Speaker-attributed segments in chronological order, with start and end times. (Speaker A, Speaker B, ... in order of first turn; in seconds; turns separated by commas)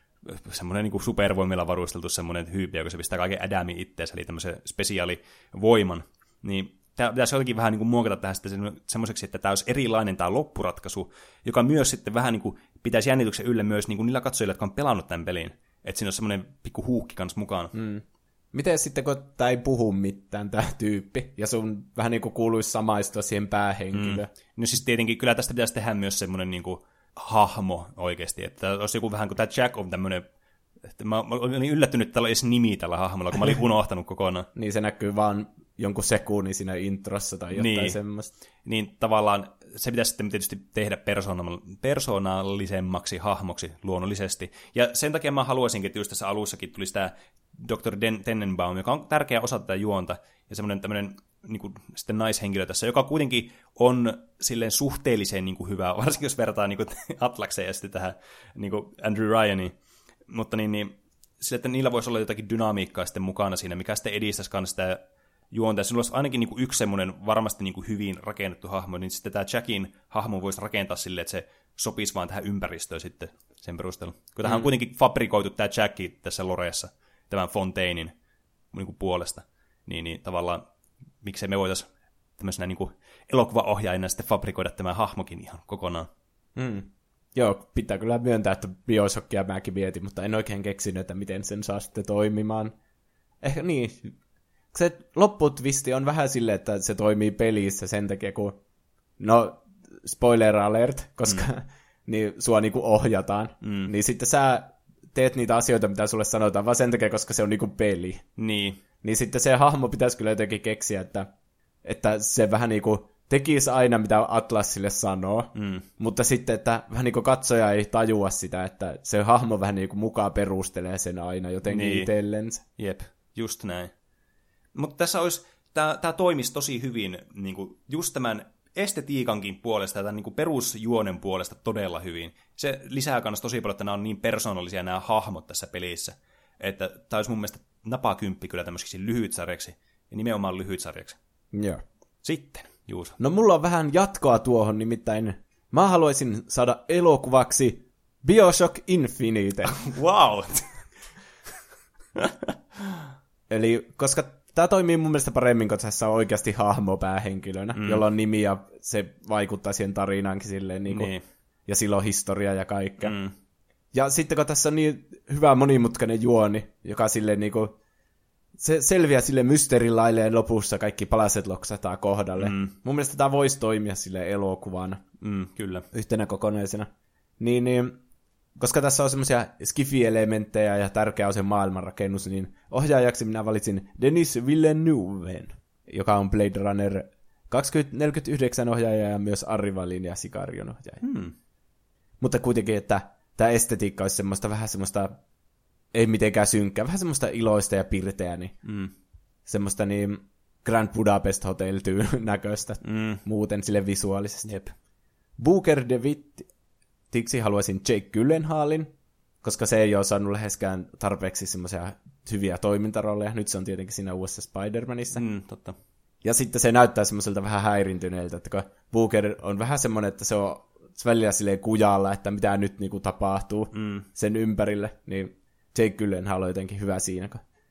Speaker A: 0.2-17.7, Speaker B: 17.7-24.3, Speaker A: 23.9-30.2, Speaker A: 30.9-34.5, Speaker B: 34.5-38.3, Speaker A: 37.5-38.0, Speaker A: 38.6-59.7, Speaker A: 60.3-78.1, Speaker A: 78.7-80.6, Speaker A: 81.2-86.1, Speaker B: 86.5-92.7, Speaker B: 93.4-94.1, Speaker B: 94.7-98.6, Speaker B: 99.2-108.2, Speaker A: 103.6-103.9, Speaker A: 108.4-108.8, Speaker B: 109.0-111.3, Speaker B: 111.8-122.6, Speaker A: 115.5-115.8, Speaker A: 121.7-122.1, Speaker A: 122.8-123.9, Speaker A: 124.7-141.2, Speaker B: 141.5-141.8, Speaker A: 142.2-143.2, Speaker B: 143.2-149.8, Speaker A: 149.7-150.8, Speaker A: 152.2-152.5, Speaker B: 153.5-161.1, Speaker A: 157.7-158.0, Speaker A: 160.9-161.2, Speaker B: 161.7-163.2, Speaker A: 163.0-163.3, Speaker B: 163.9-167.8, Speaker B: 168.6-175.0, Speaker A: 172.4-172.7, Speaker A: 175.2-175.9, Speaker B: 175.9-176.9, Speaker B: 177.4-178.0, Speaker B: 178.6-191.0, Speaker A: 191.0-191.3, Speaker B: 192.2-195.2, Speaker B: 195.9-198.6, Speaker A: 198.6-198.9, Speaker B: 199.5-204.5, Speaker A: 202.8-203.2, Speaker A: 204.4-204.7, Speaker B: 205.4-206.4, Speaker B: 207.1-208.9, Speaker B: 209.4-215.2, Speaker A: 215.1-215.8, Speaker B: 216.2-227.4, Speaker A: 223.7-224.1